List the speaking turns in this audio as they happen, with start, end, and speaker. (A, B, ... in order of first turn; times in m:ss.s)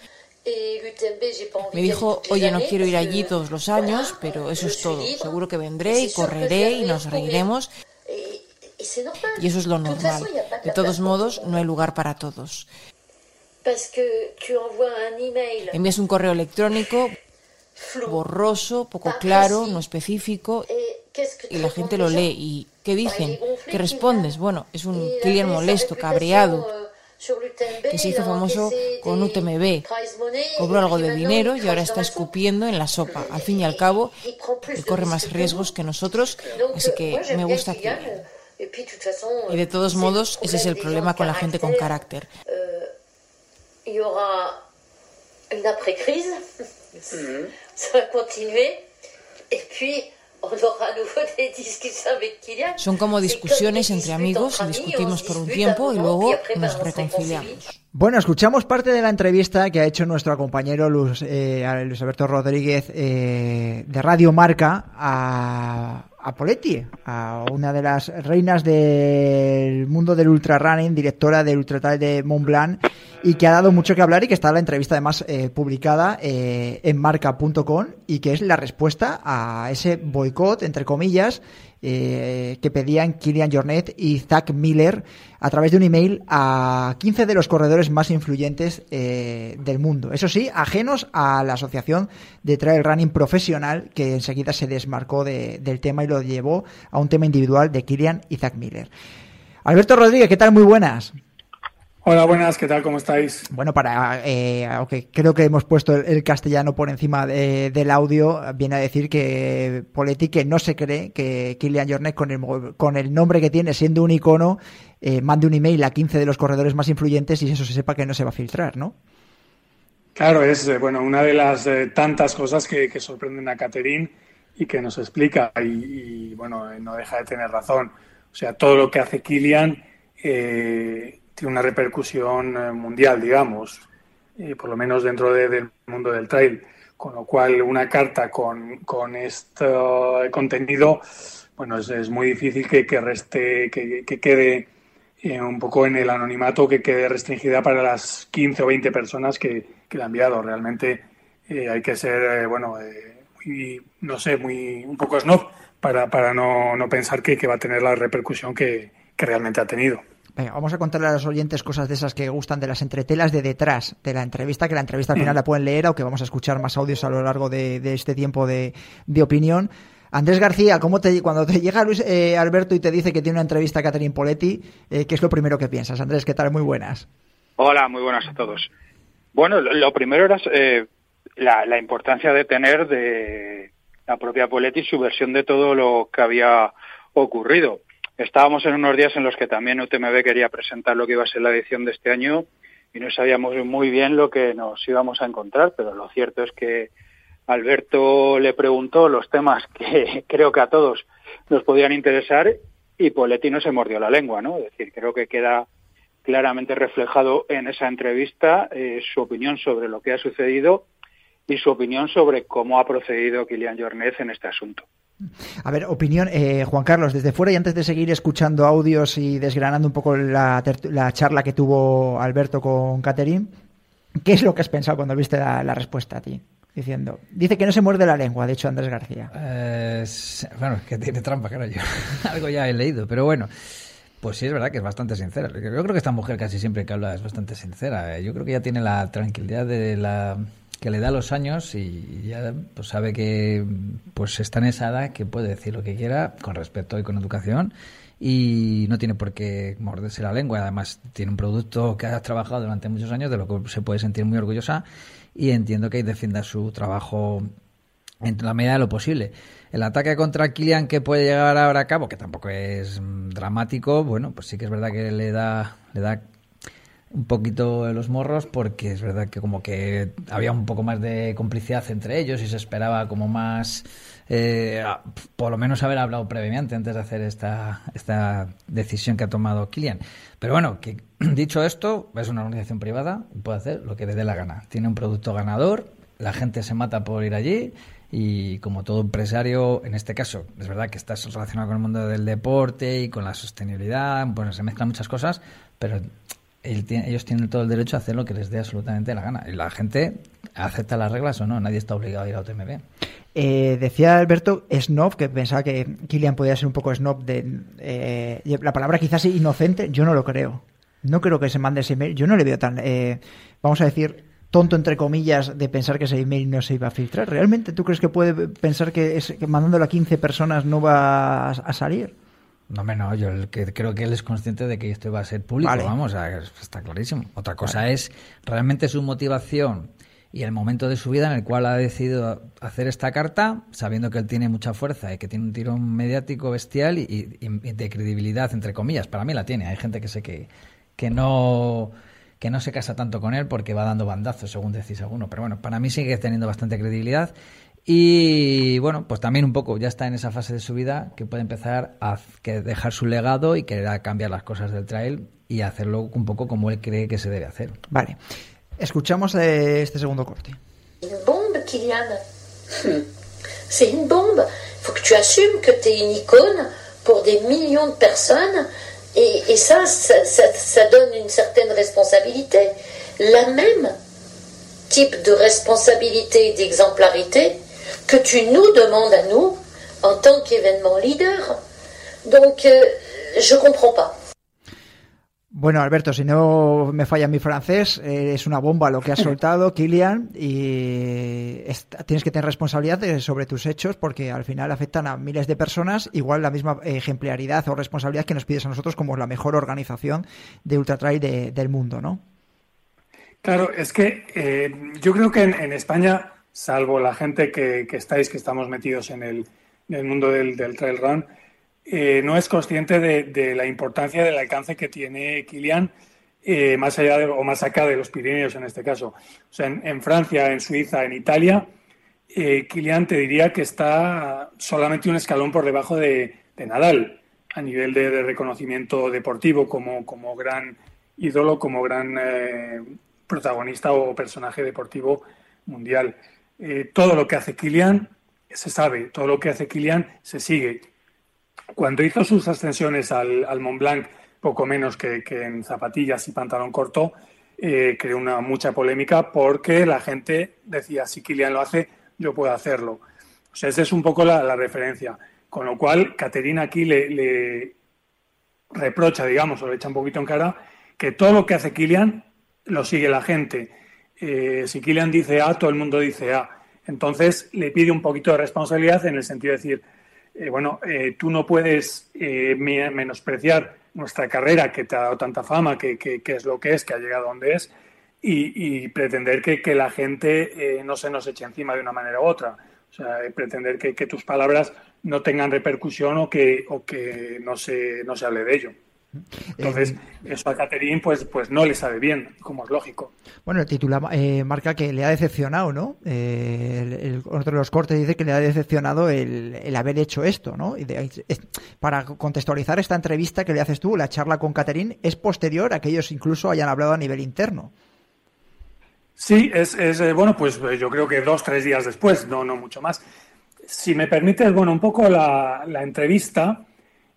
0:00.4-0:07.5 A
0:01.7-0:07.7 B
0:08.1-0:11.8 A
0:09.3-0:12.7 B
0:13.6-0:15.8 A
0:15.7-0:17.2 B
0:17.8-0:18.2 A
0:18.0-0:20.6 B
0:19.0-0:19.8 A
0:20.7-0:22.3 A
0:21.5-0:26.7 B
0:23.0-0:24.4 A
0:24.9-0:32.4 A
0:27.9-0:29.8 B
0:30.6-0:34.2 B
0:33.1-0:35.7 A
0:34.7-0:38.2 B
0:36.5-0:42.9 A
0:39.5-0:42.3 B
0:43.8-0:44.6 A
0:45.5-0:48.8 A
0:49.5-0:57.6 A
0:52.8-0:57.7 B
0:57.9-1:38.9 C
1:39.6-1:41.1 C
1:42.0-1:43.5 D
1:43.5-1:59.0 C
2:00.2-2:13.8 D
2:14.4-2:21.0 D
2:21.6-2:24.7 D
2:25.2-2:40.0 D
2:40.4-2:57.1 C
2:57.6-2:58.7 E
2:59.3-3:00.9 E
3:01.4-3:16.9 E
3:17.5-3:25.7 E
3:26.2-3:30.9 E
3:31.5-3:34.8 E
3:35.6-3:43.5 C
3:44.2-3:49.3 C
3:49.3-3:53.5 F
3:54.2-4:14.8 F
4:15.4-4:17.5 F
4:18.2-4:26.2 F
4:27.1-4:56.1 F
4:56.6-5:02.8 F
5:03.4-5:22.1 C
5:22.7-5:47.3 F
5:25.6-5:25.9 C
5:47.9-5:57.8 F
5:57.9-5:58.2 C
5:58.8-6:00.6 C
6:01.0-6:03.1 A
6:03.7-6:14.0 A
6:14.9-6:21.6 A
6:22.2-6:24.1 A
6:25.5-6:42.2 C
6:43.4-6:51.3 D
6:51.9-6:55.9 D
6:56.4-7:01.7 D
7:02.3-7:20.9 D
7:21.8-7:33.0 D
7:33.5-7:37.8 D
7:38.7-7:49.8 D
7:50.4-7:57.7 D
7:58.2-8:08.7 D
8:09.6-8:10.0 C
8:09.6-8:13.1 D
8:13.5-8:27.7 C
8:29.2-8:33.0 D
8:33.7-8:36.7 D